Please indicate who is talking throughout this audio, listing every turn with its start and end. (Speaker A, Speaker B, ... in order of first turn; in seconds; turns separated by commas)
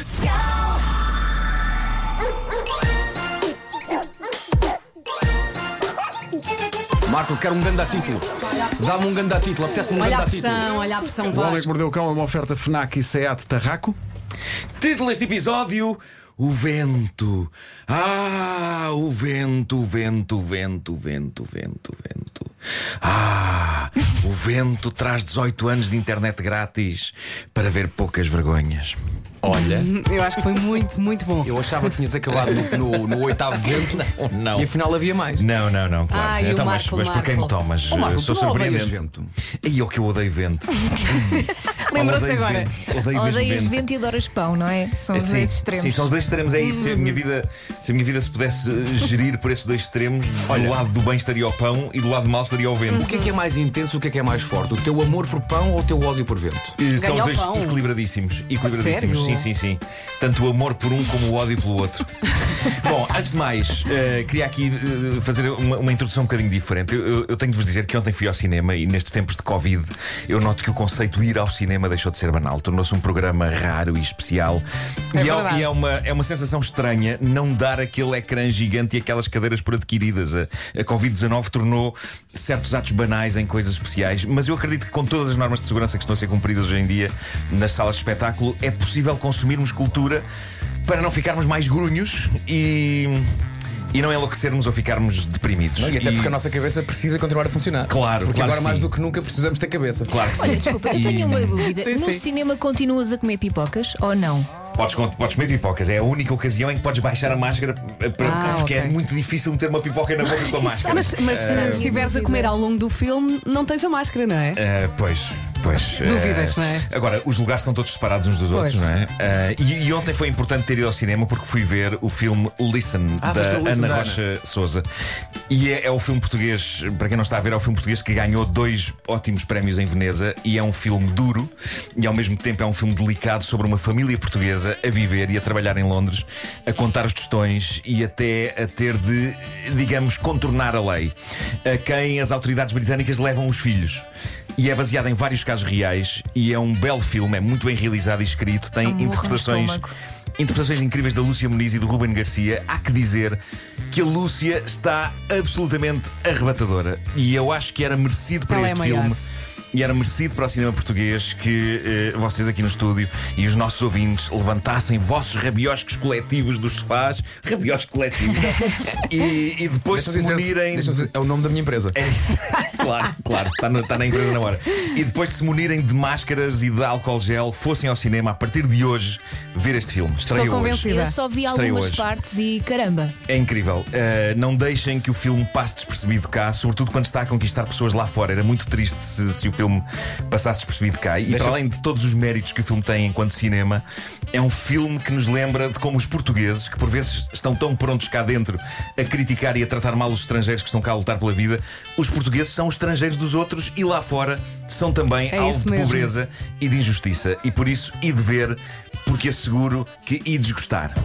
Speaker A: 7.0-10.7, Speaker B: 10.0-11.7, Speaker C: 11.3-14.0, Speaker D: 14.8-29.0, Speaker A: 29.4-29.9, Speaker B: 29.6-31.9, Speaker A: 31.4-35.5, Speaker D: 33.9-34.8, Speaker D: 35.4-39.0, Speaker B: 36.1-37.5, Speaker A: 37.9-39.3, Speaker D: 39.6-43.9, Speaker B: 41.2-42.7, Speaker E: 43.1-46.1, Speaker D: 45.1-53.1, Speaker B: 46.6-47.2, Speaker A: 50.5-50.8, Speaker B: 52.9-53.3, Speaker A: 53.0-56.8, Speaker D: 56.8-90.2, Speaker B: 56.9-57.8, Speaker B: 58.6-59.5, Speaker B: 75.1-75.7, Speaker D: 90.9-93.3, Speaker D: 93.9-96.4, Speaker A: 95.8-100.3, Speaker D: 97.9-98.9, Speaker D: 100.1-101.7, Speaker E: 100.3-104.5, Speaker B: 100.5-101.0, Speaker B: 101.7-102.2, Speaker D: 104.7-112.1, Speaker B: 108.2-109.0, Speaker E: 110.5-112.6, Speaker B: 110.9-114.6, Speaker D: 114.5-124.9, Speaker B: 116.0-116.9, Speaker B: 118.5-118.9, Speaker A: 123.2-124.2, Speaker D: 125.5-149.9, Speaker E: 148.8-149.9, Speaker D: 150.4-171.1, Speaker B: 158.5-159.2, Speaker A: 169.9-172.0, Speaker D: 171.9-180.9, Speaker B: 180.2-181.2, Speaker E: 180.9-183.2, Speaker D: 181.4-182.1, Speaker D: 183.3-211.0, Speaker A: 191.3-191.6, Speaker B: 205.3-206.1